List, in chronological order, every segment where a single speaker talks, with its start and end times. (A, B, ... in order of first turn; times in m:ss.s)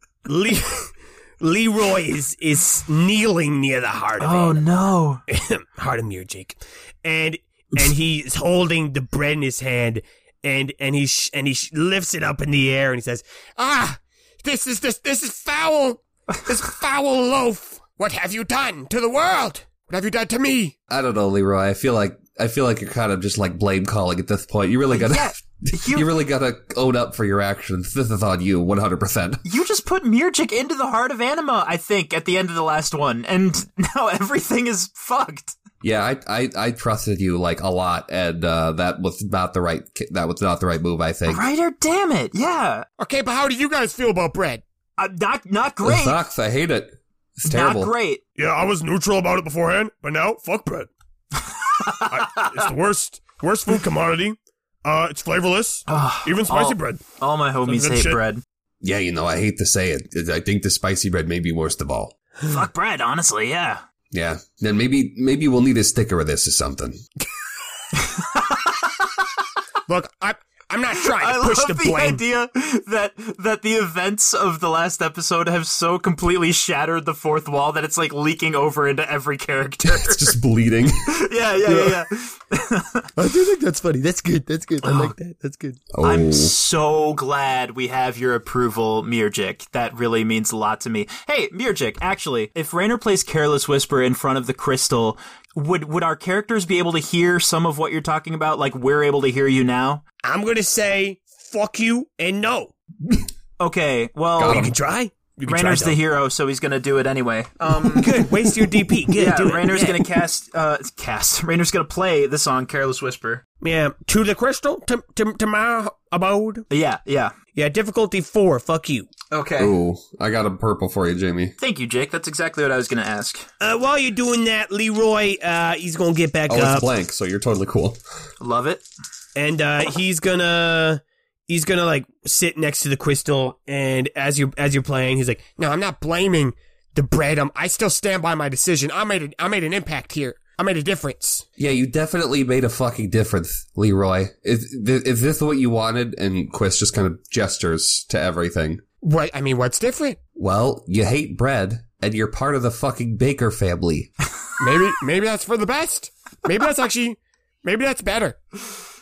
0:00.2-0:04.6 A
0:04.2-0:05.2 B
0:05.3-0:20.7 A
0:20.9-0:29.4 C
0:24.9-0:26.1 B
0:29.4-0:35.6 B
0:35.8-0:41.4 C
0:41.3-0:42.8 B
0:43.0-0:44.6 A
0:45.0-0:46.2 B
0:45.8-0:47.9 C
0:47.5-0:48.2 B
0:48.4-0:50.9 A
0:51.6-0:52.6 B
0:52.1-0:57.0 A
0:55.9-0:58.4 B
0:57.6-0:58.2 A
0:58.8-1:02.1 C
1:02.4-1:03.8 B
1:04.1-1:07.0 C
1:08.0-1:09.2 B
1:09.9-1:12.2 A
1:11.0-1:20.4 B
1:19.8-1:21.1 C
1:21.0-1:23.1 B
1:21.6-1:22.0 A
1:23.2-1:25.8 A
1:24.8-1:25.1 B
1:25.9-1:26.5 C
1:26.0-1:40.0 B
1:40.2-1:42.7 A
1:43.6-1:44.7 B
1:44.4-1:44.7 C
1:44.4-1:46.0 A
1:45.5-1:48.2 B
1:47.9-1:50.1 A
1:49.1-1:53.4 B
1:53.6-1:56.6 A
1:56.7-1:57.3 B
1:57.5-1:59.1 A
1:59.3-1:59.7 B
1:59.6-2:01.5 C
2:01.6-2:03.5 B
2:03.6-2:06.9 A
2:06.5-2:08.0 C
2:08.4-2:08.8 B
2:09.4-2:21.4 A
2:21.6-2:28.8 C
2:29.0-2:30.2 A
2:30.4-2:34.1 C
2:34.6-2:38.4 A